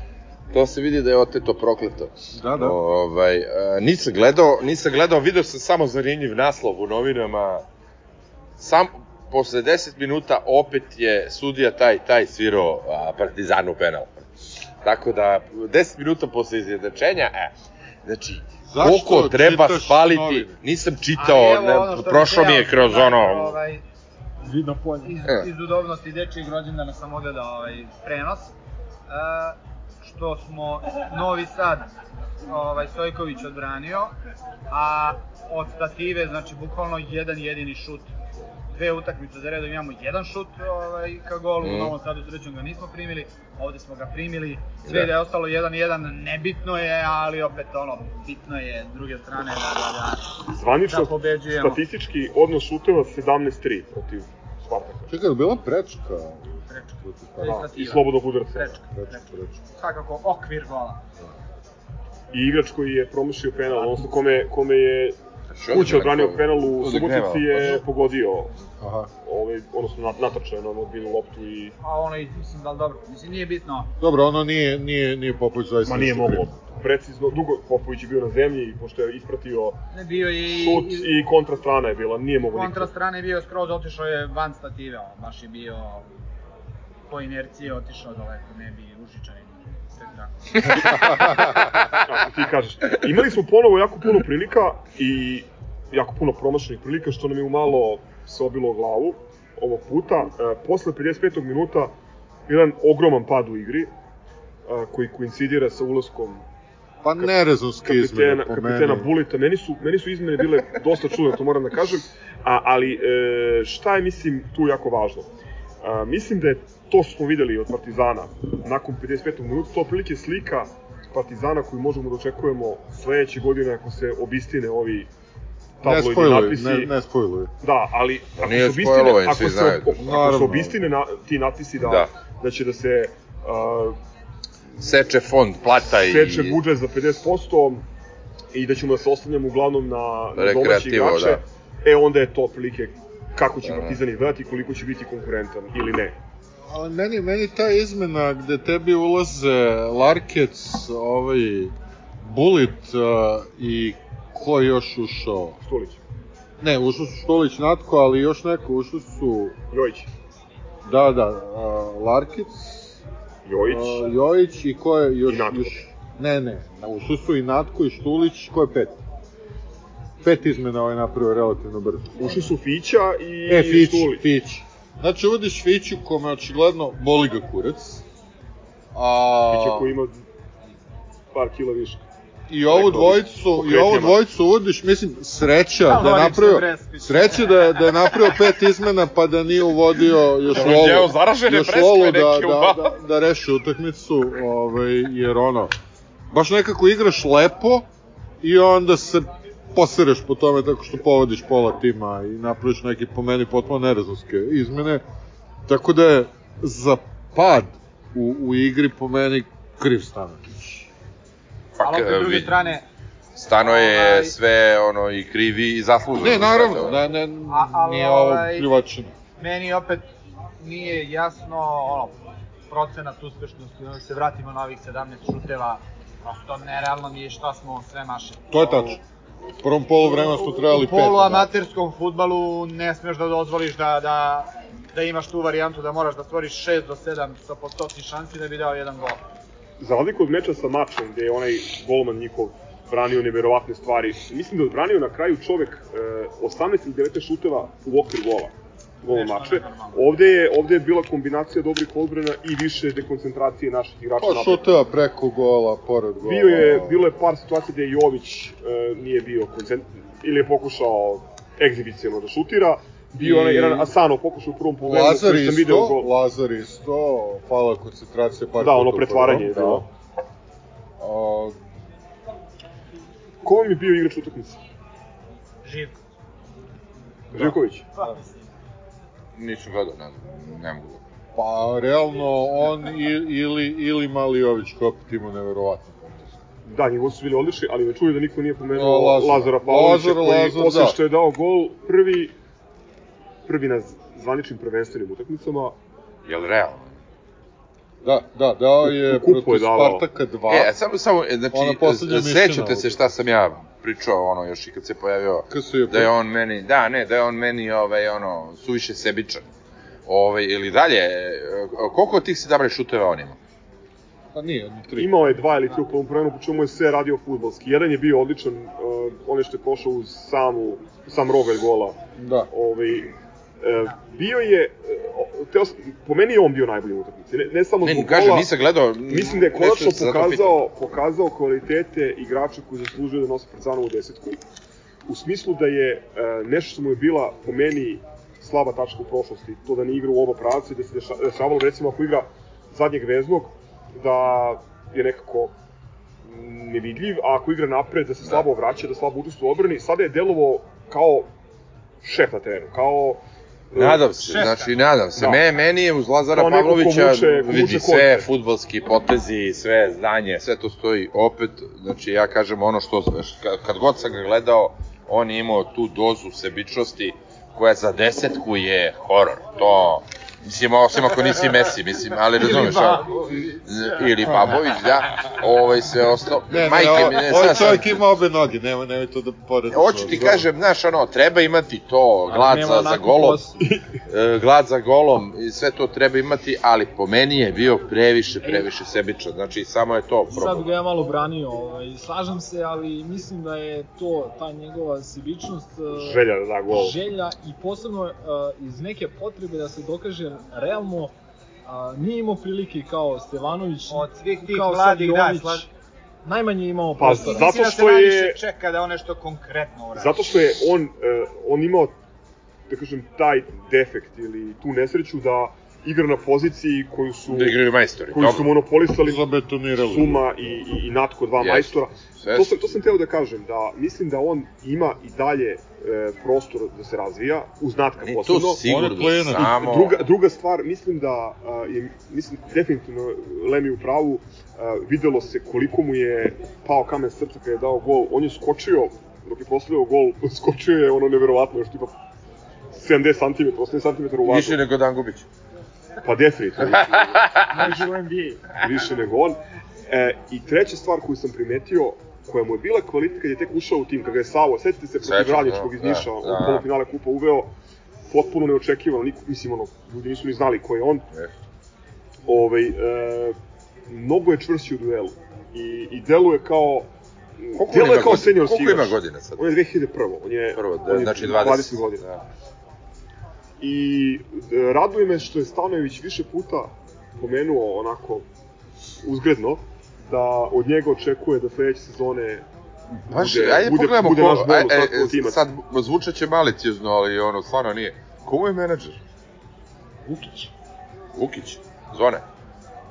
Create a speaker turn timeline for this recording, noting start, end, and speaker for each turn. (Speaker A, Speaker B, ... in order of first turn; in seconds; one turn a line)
Speaker A: 0.5-7.6
Speaker B: 2.4-2.8
Speaker A: 8.6-14.2
Speaker A: 14.8-17.5
Speaker A: 18.1-23.6
Speaker B: 18.7-20.6
Speaker C: 21.2-23.8
Speaker D: 24.4-25.2
Speaker C: 25.0-28.5
Speaker C: 29.1-31.9
Speaker C: 32.5-34.1
Speaker C: 34.7-38.1
Speaker C: 38.7-51.8
Speaker A: 41.6-42.0
Speaker A: 44.9-45.1
Speaker E: 50.5-55.1
Speaker B: 55.1-57.7
Speaker C: 56.7-61.0
Speaker E: 57.4-58.8
Speaker B: 58.9-59.6
Speaker E: 62.3-65.2
Speaker C: 63.8-64.1
Speaker A: 65.6-67.8
Speaker E: 65.7-68.5
Speaker B: 68.8-69.1
Speaker E: 69.2-71.8
Speaker C: 71.8-73.9
Speaker B: 74.0-76.6
Speaker E: 75.9-79.8
Speaker C: 79.9-81.1
Speaker E: 80.5-82.9
Speaker C: 82.5-86.0
Speaker C: 87.1-91.3
Speaker E: 92.0-101.9
Speaker E: 102.5-103.9
Speaker E: 104.7-106.4
Speaker B: 107.0-109.1
Speaker E: 107.8-115.3
Speaker E: 115.8-125.1
Speaker E: 125.8-126.9
Speaker B: 125.8-127.5
Speaker E: 127.6-134.0
Speaker A: 128.4-130.0
Speaker B: 130.0-130.8
Speaker A: 131.8-132.1
Speaker A: 134.8-136.6
Speaker E: 135.9-137.8
Speaker E: 138.5-146.2
Speaker A: 140.4-141.4
Speaker A: 143.7-144.0
Speaker B: 146.7-155.6
Speaker E: 155.6-156.0
Speaker B: 156.6-159.6
Speaker E: 159.7-160.1
Speaker B: 160.8-163.0
Speaker E: 163.5-164.0
Speaker B: 163.7-169.0
Speaker E: 165.3-165.8
Speaker B: 170.2-172.3
Speaker E: 172.2-174.2
Speaker B: 173.5-178.0
Speaker B: 178.9-179.9
Speaker E: 179.5-180.1
Speaker E: 181.3-182.0
Speaker B: 182.5-195.8
Speaker E: 182.7-184.2
Speaker C: 185.8-188.4
Speaker A: 190.5-192.9
Speaker B: 196.3-197.9
Speaker B: 198.4-205.0
Speaker B: 205.7-210.9
Speaker A: 211.8-212.6
Speaker C: 211.8-212.8
Speaker A: 213.4-217.0
Speaker C: 213.6-214.4
Speaker B: 216.2-219.1
Speaker C: 217.5-218.7
Speaker C: 219.4-220.1
Speaker C: 220.6-222.2
Speaker C: 222.7-229.0
Speaker B: 228.5-229.0
Speaker B: 229.6-231.5
Speaker C: 230.0-239.2
Speaker E: 239.8-254.6
Speaker C: 249.1-250.2
Speaker B: 254.2-257.0
Speaker E: 256.2-266.1
Speaker B: 263.2-263.9
Speaker B: 264.9-269.9
Speaker E: 268.6-269.9
Speaker B: 271.0-271.6
Speaker E: 273.4-274.6
Speaker C: 275.6-276.0
Speaker E: 277.3-277.9
Speaker C: 278.0-278.3
Speaker A: 279.4-281.0
Speaker B: 281.4-286.4
Speaker E: 286.7-292.3
Speaker B: 288.7-291.0
Speaker E: 293.5-295.8
Speaker A: 296.3-296.9
Speaker B: 298.0-300.7
Speaker E: 298.9-300.0
Speaker A: 300.5-309.4
Speaker B: 301.5-303.0
Speaker B: 305.5-306.1
Speaker A: 310.1-313.4
Speaker B: 314.3-315.1
Speaker E: 315.0-322.0
Speaker B: 322.2-322.5
Speaker E: 322.5-328.5
Speaker A: 327.8-330.6
Speaker E: 329.1-334.4
Speaker E: 335.1-345.5
Speaker E: 346.2-351.3
Speaker E: 352.0-354.1
Speaker A: 353.7-373.1
Speaker C: 354.2-354.7
Speaker E: 355.1-355.4
Speaker E: 356.3-358.2
Speaker C: 372.4-374.1
Speaker A: 373.6-377.9
Speaker B: 376.5-380.5
Speaker A: 379.7-383.5
Speaker D: 382.3-383.5
Speaker E: 383.6-383.9
Speaker A: 384.1-390.7
Speaker D: 390.3-401.1
Speaker E: 395.9-397.0
Speaker D: 401.7-405.7
Speaker C: 403.9-405.7
Speaker D: 406.2-407.5
Speaker E: 407.0-408.4
Speaker C: 407.0-410.2
Speaker E: 409.9-411.9
Speaker E: 412.7-417.6
Speaker A: 417.3-418.5
Speaker E: 418.1-419.2
Speaker B: 419.0-420.3
Speaker E: 419.8-428.6
Speaker A: 421.4-422.7
Speaker A: 428.1-430.0
Speaker B: 428.6-429.5
Speaker E: 429.4-441.9
Speaker E: 442.7-444.6
Speaker A: 444.3-445.2
Speaker E: 446.0-447.6
Speaker A: 446.7-447.8
Speaker C: 447.6-448.5
Speaker E: 448.6-457.5
Speaker A: 455.0-456.6
Speaker E: 458.1-461.0
Speaker E: 462.3-463.4
Speaker E: 463.9-472.0
Speaker A: 467.6-469.5
Speaker A: 470.6-472.2
Speaker E: 473.6-478.3
Speaker E: 479.1-482.4
Speaker E: 483.1-485.4
Speaker A: 483.1-489.0
Speaker A: 491.1-492.2